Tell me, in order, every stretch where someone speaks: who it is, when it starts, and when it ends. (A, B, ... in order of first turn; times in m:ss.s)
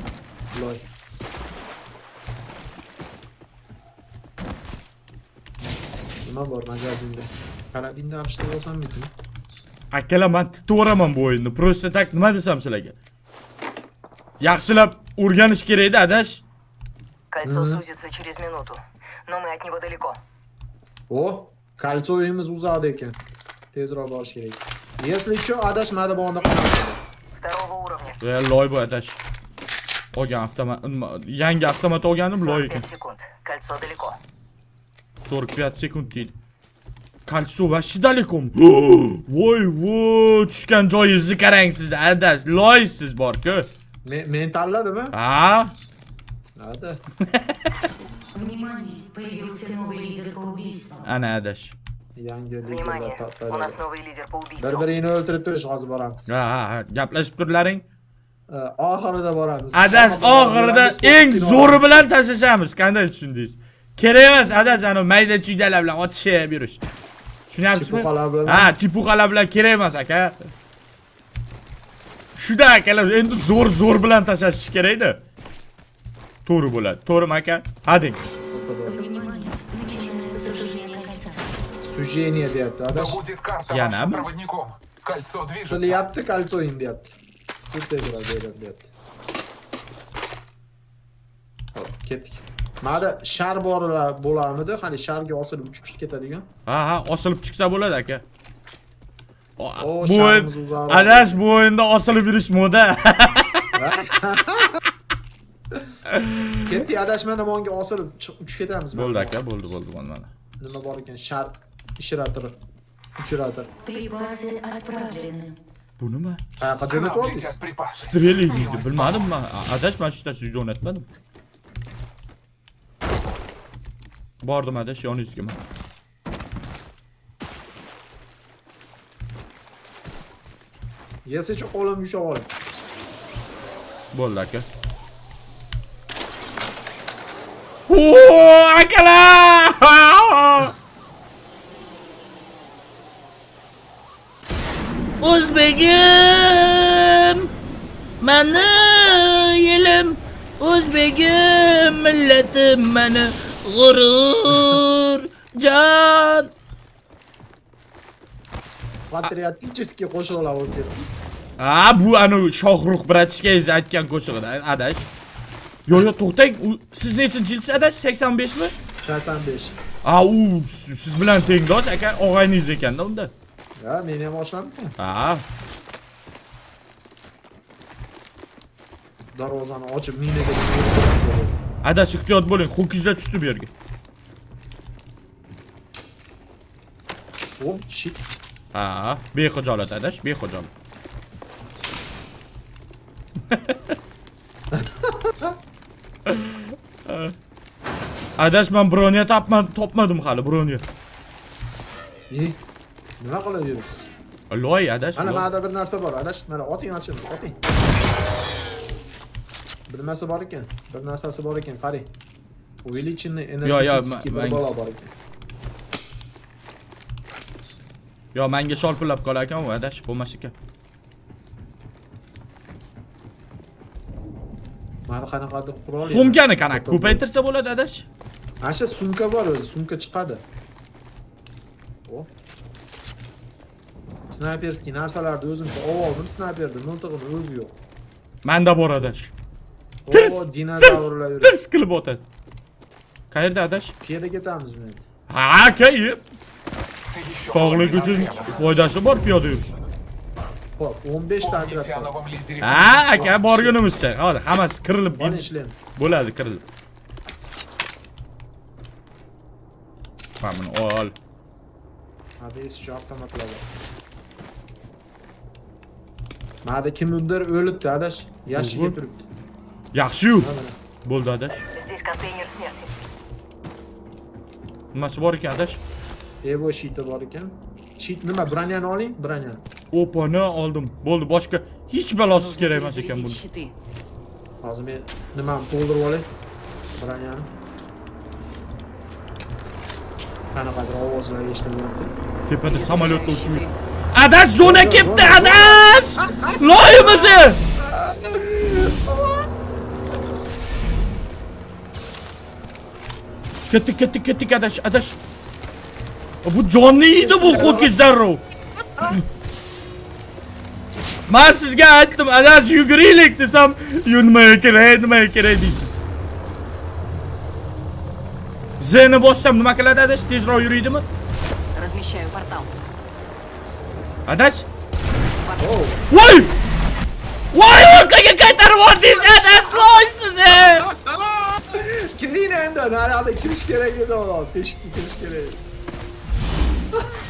0:00.5-0:00.8 A
0:06.2-0:09.1 A
0:09.9-0:13.0 B
0:14.4-0:16.4 B
0:17.3-0:20.2 C
0:17.4-0:17.8 A
0:21.1-0:23.2 A
0:23.7-0:27.0 A
0:27.4-0:28.2 C
0:28.2-0:29.2 B
0:30.1-0:32.9 B
0:32.4-0:34.2 C
0:35.2-0:36.4 B
0:37.3-0:43.7 B
0:44.0-0:45.2 A
0:45.1-0:45.8 B
0:46.6-0:47.0 A
0:47.2-0:47.6 B
0:48.3-0:51.1 D
0:51.0-0:51.8 B
0:52.2-0:53.8 A
0:52.6-0:54.9 C
0:54.6-0:56.3 A
0:56.3-0:57.8 B
0:58.5-1:02.0 A
0:59.7-1:06.8 B
1:07.5-1:10.4 B
1:07.7-1:08.8 A
1:12.4-1:15.2 B
1:16.5-1:18.3 B
1:18.5-1:19.0 A
1:18.9-1:21.5 D
1:21.8-1:23.2 A
1:22.9-1:26.1 E
1:23.7-1:24.3 B
1:25.2-1:27.2 A
1:27.7-1:28.9 A
1:31.8-1:36.5 A
1:36.7-1:38.2 B
1:39.6-1:43.7 B
1:39.8-1:41.4 A
1:43.8-1:44.8 A
1:46.1-1:46.8 B
1:46.6-1:49.4 A
1:48.9-1:50.3 B
1:50.6-1:52.6 A
1:53.2-1:53.7 A
1:53.8-1:55.6 D
1:56.0-1:56.8 B
1:56.6-1:57.6 A
1:56.9-1:59.4 E
1:57.9-2:01.1 B
2:04.4-2:05.6 B
2:11.3-2:12.5 A
2:14.1-2:14.7 B
2:17.9-2:20.7 B
2:25.2-2:27.5 B
2:28.2-2:36.5 B
2:39.1-2:41.1 A
2:41.6-2:45.1 B
2:45.9-2:48.7 B
2:49.0-2:49.8 A
2:50.0-2:53.3 B
2:53.8-2:55.0 A
2:55.0-2:55.4 B
2:59.4-3:01.6 A
3:01.8-3:03.7 B
3:07.6-3:08.2 A
3:08.7-3:10.7 B
3:13.5-3:13.9 B
3:14.7-3:15.6 A
3:16.3-3:17.4 B
3:18.4-3:20.8 B
3:22.3-3:22.6 A
3:23.2-3:24.1 A
3:24.5-3:25.5 B
3:25.2-3:27.6 A
3:29.9-3:32.1 A
3:32.8-3:35.1 A
3:33.6-3:34.6 B
3:38.3-3:40.5 B
3:45.1-3:47.2 A
3:46.0-3:48.1 B
3:48.6-3:50.4 A
3:54.3-3:57.8 A
3:58.4-3:59.3 B
4:00.1-4:01.6 A
4:00.1-4:02.2 B
4:03.3-4:03.9 B
4:04.0-4:05.0 A
4:05.3-4:06.2 B
4:07.1-4:09.0 E
4:07.4-4:09.7 B
4:07.7-4:08.6 A
4:10.8-4:12.1 A
4:11.4-4:13.2 E
4:12.6-4:16.6 B
4:13.0-4:13.8 A
4:15.1-4:15.8 A
4:20.4-4:21.2 B
4:22.4-4:23.7 A
4:26.6-4:29.3 A
4:28.5-4:29.0 B
4:29.9-4:30.5 B
4:30.4-4:30.8 A
4:31.0-4:31.6 B
4:31.7-4:32.9 C
4:34.9-4:35.8 B
4:36.4-4:39.6 A
4:39.9-4:43.4 B
4:42.3-4:43.7 C
4:44.6-4:46.3 A
4:47.0-4:47.5 A
4:50.5-4:52.1 A
4:52.5-4:57.6 B
4:52.6-4:53.8 C
4:54.6-4:59.5 A
5:03.7-5:05.2 B
5:06.4-5:08.4 B
5:07.2-5:08.0 A
5:11.3-5:16.0 B
5:18.8-5:21.1 B
5:21.8-5:22.8 C
5:24.3-5:24.7 B
5:25.4-5:25.8 C
5:25.6-5:26.0 A
5:26.1-5:26.6 B
5:27.5-5:30.9 B
5:30.7-5:35.6 A